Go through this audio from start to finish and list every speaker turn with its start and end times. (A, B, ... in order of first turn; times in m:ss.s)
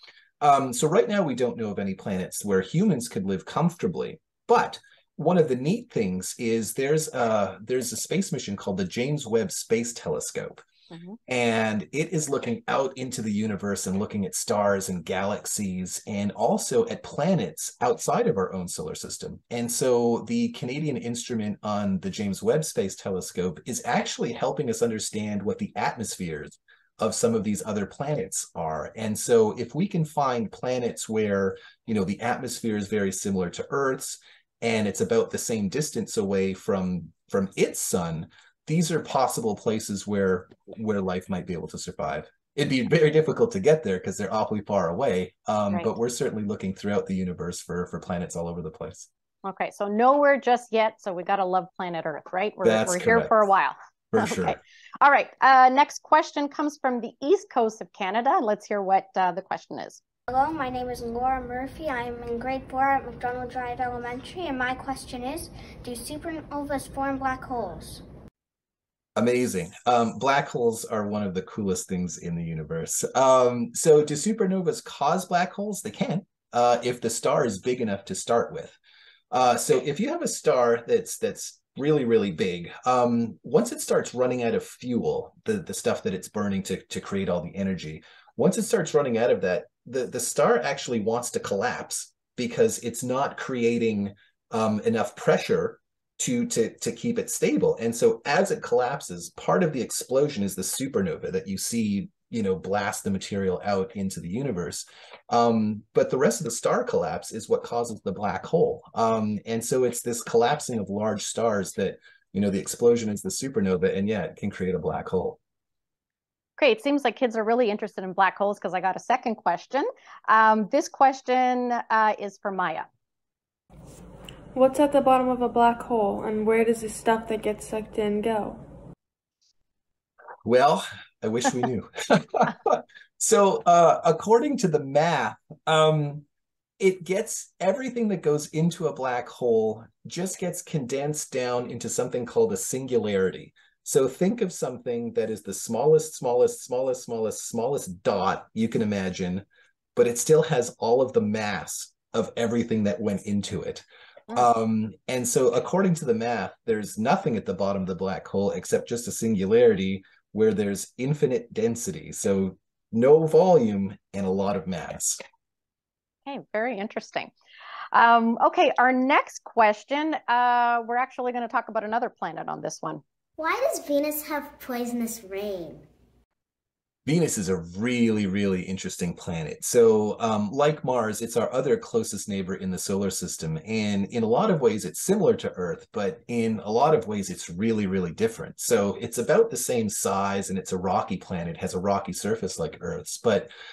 0:00.4-0:10.6 A
0:10.9-0:11.2 B
0:11.3-0:49.1 A
0:49.4-1:00.0 B
0:52.6-0:53.5 A
0:54.1-0:54.6 A
1:00.3-1:08.0 C
1:09.2-1:18.8 A
1:19.3-1:55.4 A
1:56.6-2:02.9 B
2:04.5-2:08.6 D
2:10.4-2:16.2 A
2:16.8-2:29.4 A
2:30.0-2:45.2 A
2:46.3-2:47.3 B
2:47.9-2:53.0 B
2:53.4-2:55.8 C
2:57.1-3:13.5 A